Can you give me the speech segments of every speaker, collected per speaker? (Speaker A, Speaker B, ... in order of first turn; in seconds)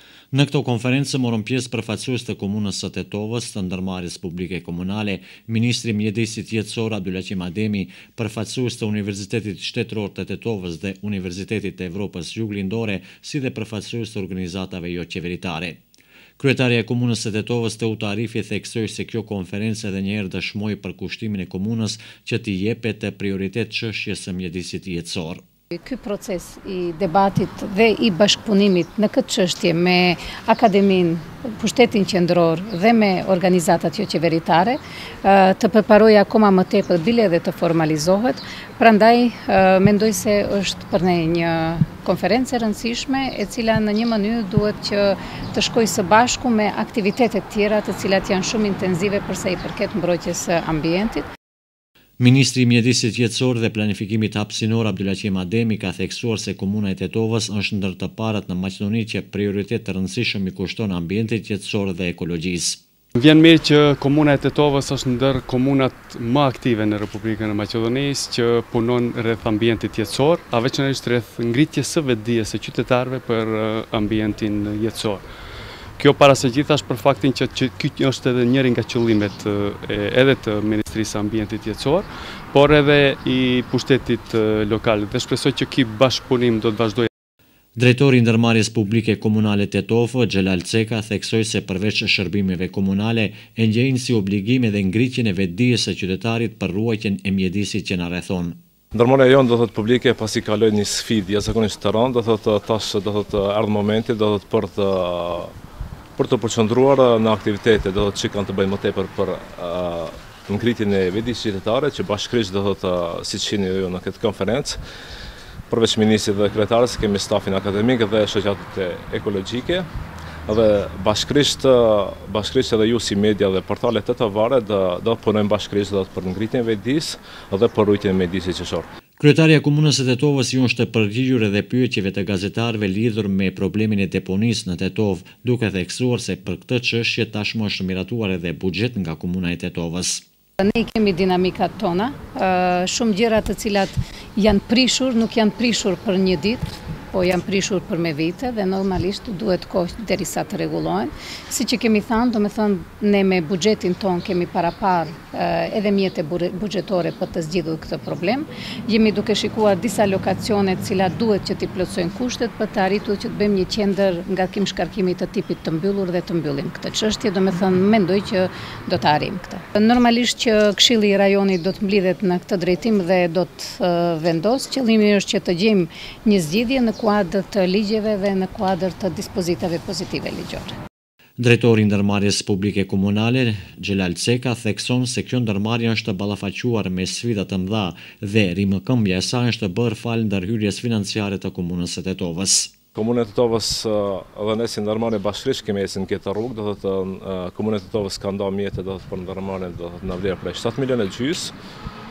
Speaker A: 0.3-15.8, 16.4-25.4, 52.2-62.8, 87.8-98.6, 129.2-140.2, 181.4-192.7
Speaker B: 25.7-51.3, 140.6-180.7
Speaker C: 63.2-75.2, 76.0-87.1
Speaker D: 98.9-105.5, 106.2-114.8, 115.7-119.9, 120.5-128.9, 192.9-201.5